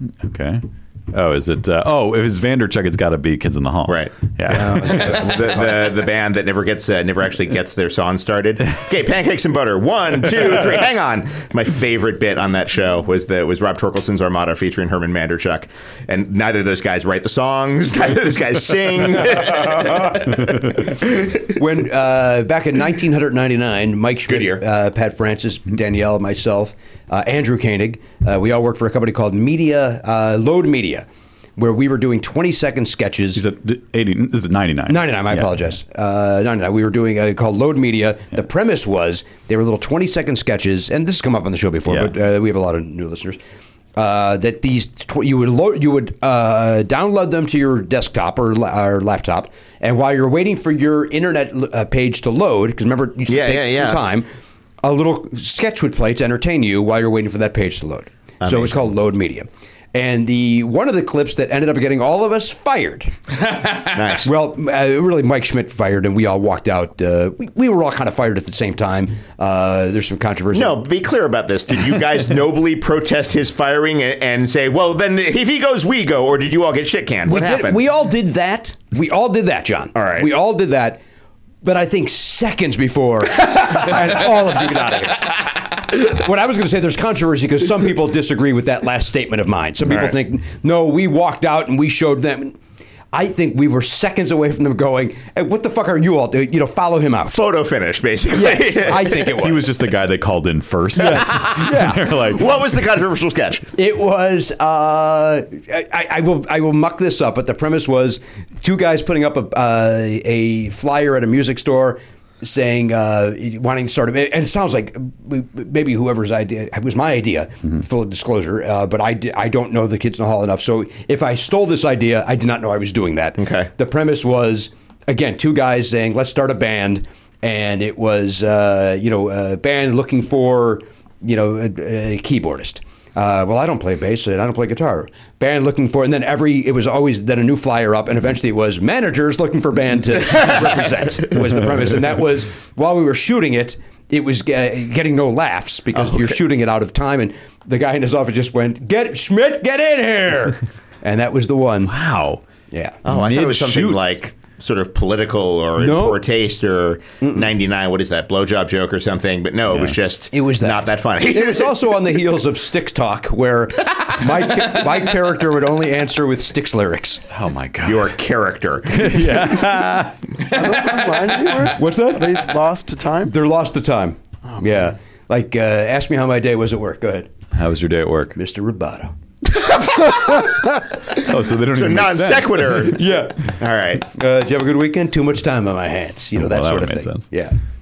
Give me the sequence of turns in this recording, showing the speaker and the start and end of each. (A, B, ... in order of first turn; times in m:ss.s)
0:00.2-0:05.2 A
0:03.9-0:21.0 B
0:04.5-0:05.6 C
0:21.5-0:33.4 C
0:24.2-0:24.6 B
0:33.3-0:35.5 A
0:34.9-0:43.4 C
0:41.9-0:42.1 A
0:44.0-0:54.3 C
0:53.3-0:54.0 B
0:54.8-1:03.1 C
0:58.4-0:58.8 B
1:03.8-1:04.3 B
1:04.2-1:10.8 C
1:10.5-1:17.8 B
1:17.2-1:21.0 C
1:19.9-1:20.3 B
1:21.6-1:32.6 C
1:29.8-1:30.2 B
1:33.1-1:37.4 C
1:37.3-1:39.4 B
1:38.3-1:39.8 C
1:39.2-1:42.5 A
1:41.0-1:42.0 C
1:41.1-1:43.7 B
1:43.8-2:31.9 C
2:03.4-2:03.7 B
2:25.9-2:26.4 B
2:31.8-2:32.4 A
2:32.7-2:34.0 C
2:33.0-2:42.0 B
2:35.8-2:36.2 C
2:40.3-2:47.2 C
2:47.3-2:48.1 A
2:47.8-2:49.6 B
2:48.9-2:50.2 A
2:50.5-2:53.4 D
2:51.6-2:52.5 C
2:53.2-2:57.3 C
2:57.5-2:58.4 A
2:58.4-2:59.1 C
2:59.7-3:00.4 B
3:01.2-3:02.9 A
3:01.6-3:04.0 B
3:02.9-3:07.6 C
3:06.4-3:07.3 A